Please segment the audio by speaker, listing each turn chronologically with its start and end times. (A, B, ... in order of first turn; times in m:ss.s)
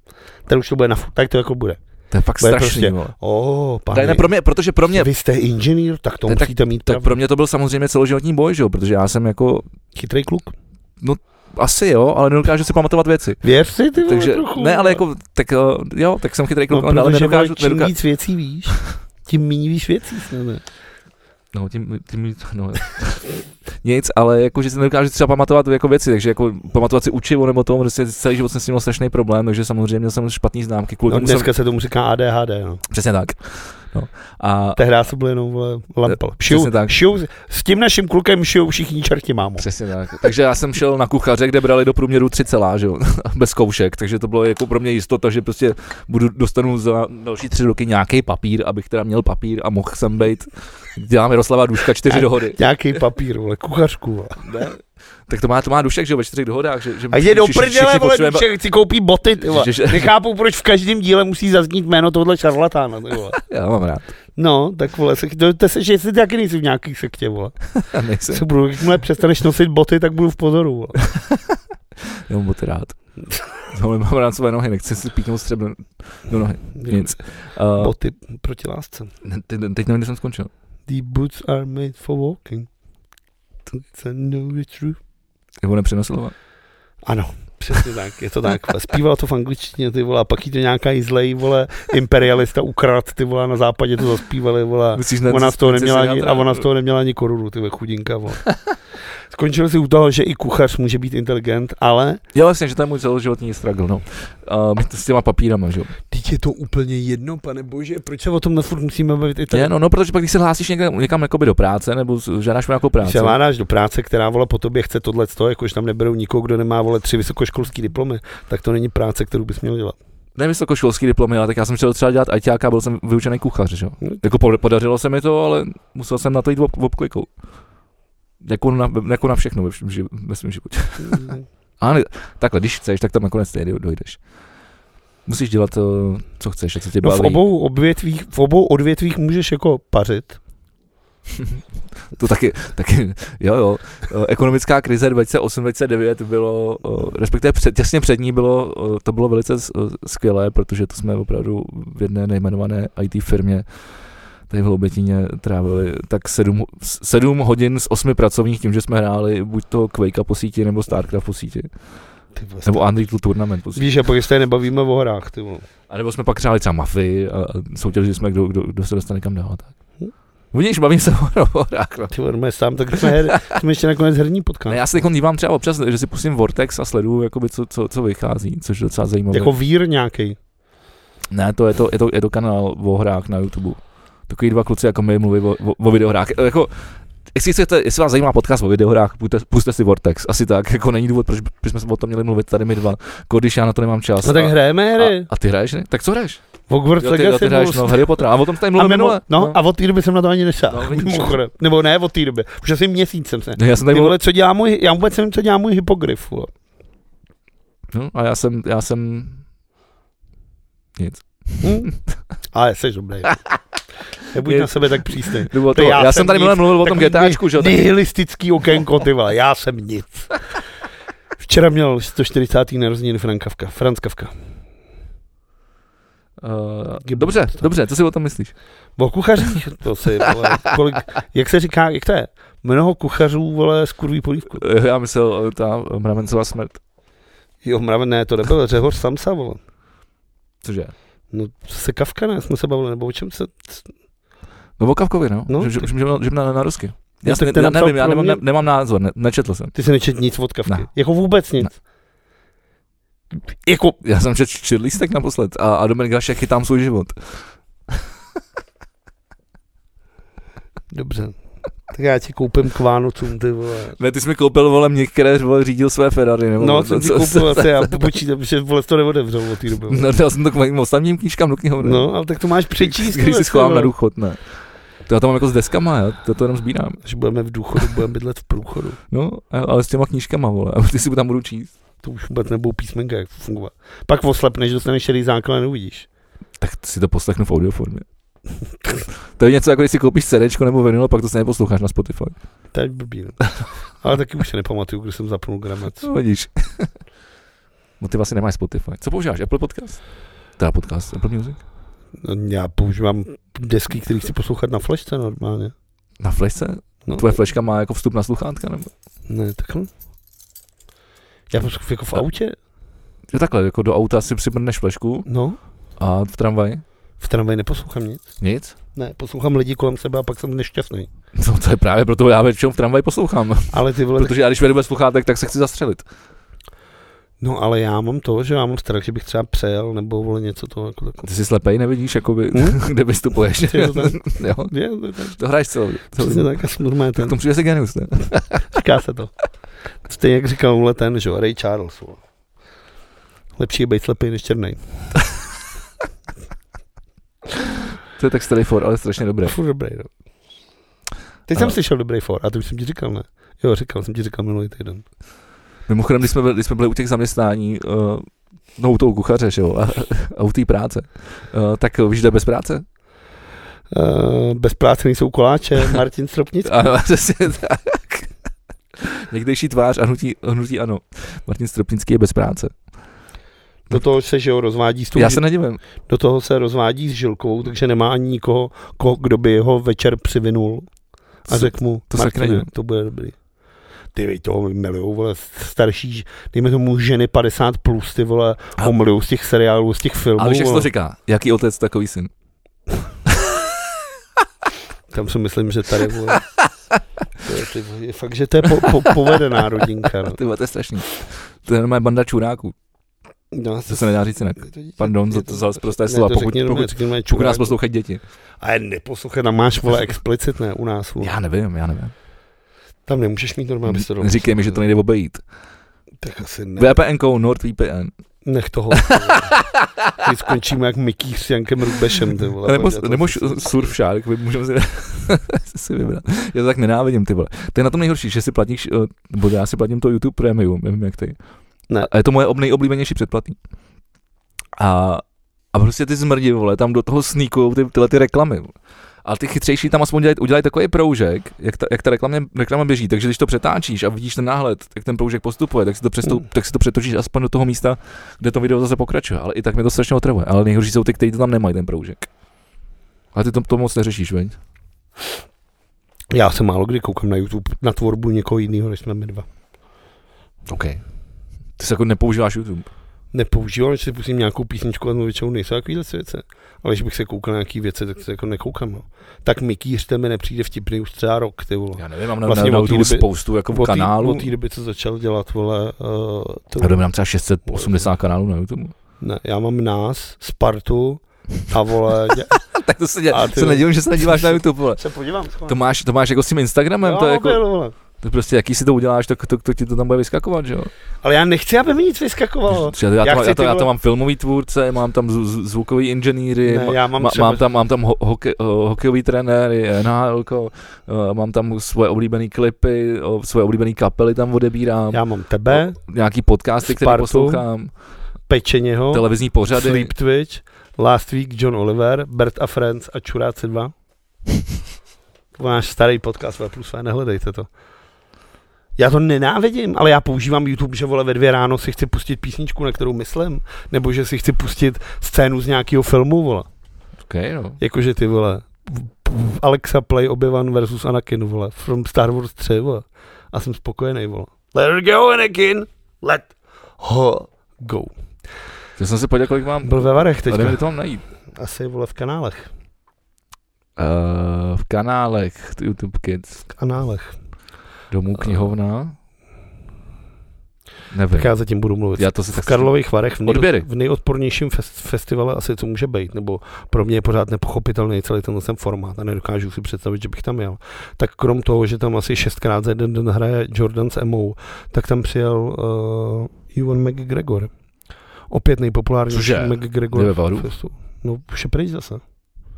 0:00.5-0:01.8 A
0:02.1-0:03.1 B
0:02.4-0:04.3 A
0:03.9-0:05.1 B
0:04.9-0:07.1 A
0:06.3-0:09.6 B
0:09.9-0:10.5 A
0:11.0-0:13.4 B
0:13.4-0:15.0 A
0:14.0-0:17.9 B
0:16.7-0:20.6 A
0:21.5-0:31.5 B
0:31.1-0:32.8 A
0:32.9-0:34.8 B
0:34.8-0:39.6 A
0:36.1-0:37.0 B
0:39.6-0:52.6 B
0:52.0-0:54.4 A
0:54.4-0:58.5 B
0:57.1-1:03.4 A
0:59.4-1:00.1 B
1:03.4-1:04.1 B
1:04.4-1:07.6 A
1:07.8-1:08.4 B
1:08.3-1:11.0 A
1:11.1-1:11.6 B
1:12.3-1:13.0 B
1:13.7-1:17.9 B
1:16.8-1:17.2 A
1:17.8-1:19.1 A
1:19.2-1:20.5 B
1:20.9-1:22.7 A
1:23.7-1:25.0 A
1:25.6-1:26.3 B
1:27.0-1:38.4 A
1:34.9-1:36.6 B
1:39.3-1:42.2 A
1:42.3-1:45.9 B
1:46.1-1:49.7 A
1:49.5-1:53.4 B
1:53.0-2:00.0 A
2:00.4-2:07.3 B
2:08.4-2:14.2 B
2:11.0-2:11.4 A
2:15.2-2:17.4 B
2:17.0-2:20.4 A
2:21.3-2:21.6 B
2:22.1-2:33.6 B
2:34.5-2:41.7 B
2:42.3-2:42.8 A
2:42.6-2:43.9 B
2:43.7-2:45.6 A
2:45.9-2:49.7 B
2:50.5-2:52.1 B
2:52.1-2:54.8 A
2:53.0-2:53.6 B
2:54.7-2:59.5 B
2:59.3-3:00.4 A
3:01.3-3:06.7 B
3:07.3-3:16.4 B
3:14.2-3:15.3 A
3:16.7-3:26.5 A
3:17.0-3:19.6 B
3:20.7-3:21.4 B
3:23.6-3:24.2 B
3:27.9-3:29.4 B
3:31.0-3:31.9 B
3:31.6-3:31.9 A
3:32.5-3:33.4 A
3:34.3-3:40.4 A
3:34.4-3:37.8 B
3:41.4-3:44.3 A
3:46.4-3:48.5 B
3:47.0-3:47.7 A
3:49.0-3:54.6 A
3:54.6-3:56.8 B
3:57.6-3:59.6 A
4:00.6-4:00.9 B
4:01.3-4:03.9 A
4:04.8-4:09.7 B
4:05.5-4:05.9 A
4:07.2-4:08.4 A
4:09.7-4:11.8 A
4:13.3-4:14.0 A
4:14.0-4:18.0 B
4:20.9-4:21.4 A
4:21.9-4:24.0 A
4:24.0-4:28.1 B
4:26.6-4:30.1 A
4:29.9-4:32.1 B
4:31.8-4:33.9 A
4:32.8-4:34.4 B
4:35.1-4:37.0 B
4:37.0-4:39.0 A
4:39.1-4:41.7 B
4:42.0-4:46.1 A
4:46.6-4:48.0 B
4:49.4-4:52.4 B
4:52.7-4:53.5 A
4:54.0-4:56.1 A
4:56.0-4:56.9 B
4:58.0-5:00.0 B
5:00.6-5:01.6 B
5:02.2-5:05.7 A
5:06.2-5:08.9 B
5:07.0-5:07.3 A
5:09.3-5:09.9 A
5:11.5-5:12.6 A
5:13.3-5:15.3 B
5:15.2-5:15.6 A
5:16.0-5:16.8 B
5:17.2-5:18.3 A
5:18.4-5:18.7 B
5:18.9-5:21.1 A
5:21.3-5:26.0 B
5:23.7-5:24.3 A
5:27.4-5:31.2 A
5:31.2-5:34.7 B
5:32.5-5:32.8 A
5:33.6-5:35.4 A
5:35.3-5:36.6 B
5:36.2-5:37.4 A
5:37.1-5:38.8 B
5:38.7-5:39.3 A
5:40.0-5:42.2 A
5:43.6-5:44.8 A
5:47.6-5:49.6 B
5:49.4-5:50.1 A
5:51.5-5:55.0 A
5:55.9-6:02.8 B
6:03.9-6:06.9 A
6:06.6-6:08.3 B
6:09.0-6:12.7 B
6:13.9-6:15.4 A
6:15.1-6:15.8 B
6:16.0-6:20.9 A
6:21.5-6:22.7 B
6:21.5-6:23.4 A
6:24.1-6:30.9 A
6:30.4-6:32.3 B
6:33.3-6:33.6 B
6:35.1-6:36.4 A
6:36.3-6:37.0 B
6:37.4-6:40.4 A
6:38.8-6:39.0 B
6:40.0-6:42.7 B
6:43.5-6:47.8 A
6:43.9-6:48.2 B
6:48.6-6:51.3 A
6:51.2-6:52.1 B
6:53.0-6:54.8 A
6:53.9-6:55.4 B
6:56.2-6:57.0 A
6:56.8-6:58.1 B
6:58.4-6:59.6 A
6:58.9-7:00.2 B
7:00.2-7:03.9 A
7:02.6-7:11.4 B
7:12.0-7:13.6 B
7:14.8-7:18.7 B
7:19.2-7:32.3 B
7:33.3-7:34.6 B
7:36.3-7:39.5 A
7:40.7-7:41.0 B
7:41.8-7:42.9 B
7:43.3-7:57.0 A
7:52.0-7:54.5 B
7:56.8-7:58.9 B
7:57.7-7:58.1 A
7:59.2-8:02.6 A
8:02.5-8:05.0 B
8:03.3-8:05.8 A
8:05.7-8:07.6 B
8:07.0-8:07.9 A
8:08.2-8:10.9 B
8:11.2-8:13.9 A
8:12.7-8:25.2 B
8:16.6-8:17.6 A
8:25.1-8:26.0 A
8:26.0-8:27.9 B
8:26.8-8:27.6 A
8:28.5-8:33.9 A
8:29.1-8:30.1 B
8:35.5-8:37.7 A
8:39.0-8:46.7 A
8:47.3-8:47.8 B
8:47.8-8:58.1 A
8:59.0-9:01.2 B
8:59.8-9:00.8 A
9:01.5-9:02.7 A
9:04.0-9:06.6 B
9:06.7-9:07.4 A
9:08.1-9:09.2 B
9:11.1-9:11.5 B
9:11.3-9:27.7 A
9:12.2-9:13.9 B
9:28.5-9:32.2 A
9:29.3-9:30.7 B